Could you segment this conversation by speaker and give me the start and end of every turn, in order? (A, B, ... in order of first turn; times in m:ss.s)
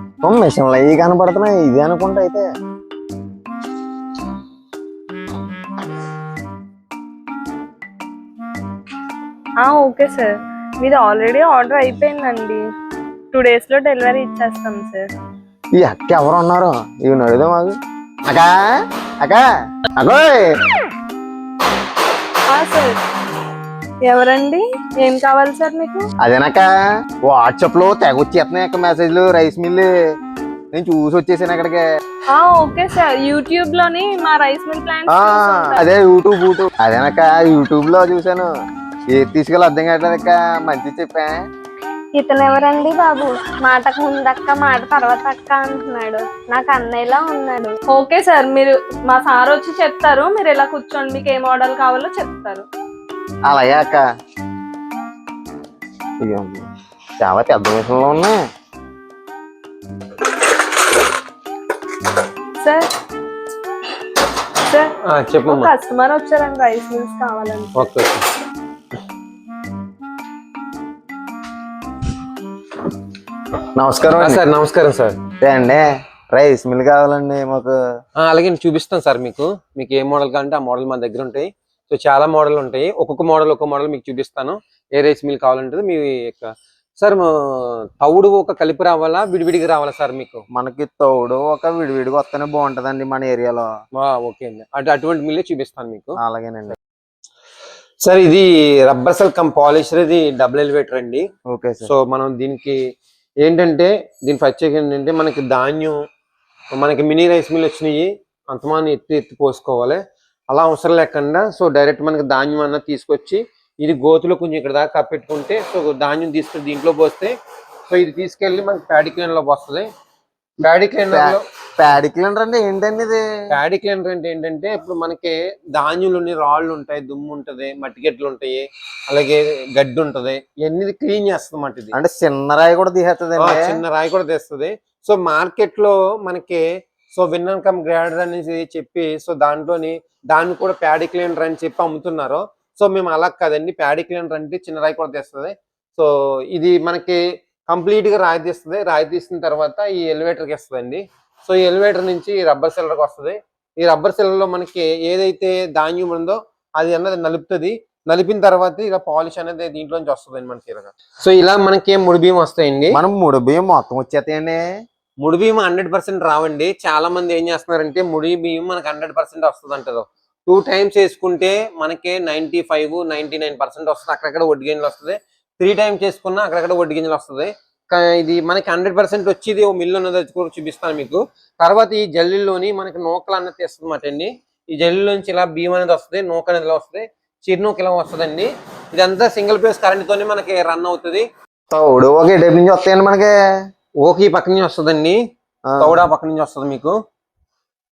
0:00.2-0:02.5 A
0:09.6-0:12.6 B
0:13.3-0:15.1 B
0:15.8-0:17.8 A
0:18.3-0:18.7 A
0:20.0-0:20.5 A
0:22.5-0:23.0 B
0:24.0-0:26.1 B
0:26.2-0:26.6 A
0:27.2-0:29.9 A
0:30.7-0:31.8 A
0:32.3-0:35.9 B
0:35.1-0:38.5 A
0:39.1-0:41.4 A
0:42.2-0:47.8 C
0:47.9-0:52.7 B
0:53.5-0:54.0 A
0:56.2-0:56.7 A
0:57.2-0:58.4 A
1:02.6-1:02.9 B
1:04.6-1:04.9 B
1:05.1-1:05.7 D
1:05.4-1:07.9 B
1:07.8-1:08.2 D
1:13.8-1:14.4 A
1:14.2-1:15.2 D
1:15.4-1:15.8 A
1:16.3-1:17.7 A
1:18.2-1:30.4 D
1:30.5-1:33.7 A
1:34.0-1:36.2 D
1:36.2-1:36.8 A
1:38.0-1:41.2 D
1:41.5-1:41.9 A
1:41.8-1:42.8 D
1:43.4-1:46.0 D
1:46.7-1:57.3 D
1:57.9-1:59.9 D
2:00.6-2:01.4 D
2:01.1-2:03.2 A
2:03.5-2:11.9 D
2:11.9-2:13.8 A
2:13.4-2:43.0 D
2:42.9-2:44.6 A
2:45.2-3:11.3 D
3:11.7-3:13.3 A
3:14.0-3:15.2 D
3:15.7-3:16.0 A
3:15.8-3:17.0 D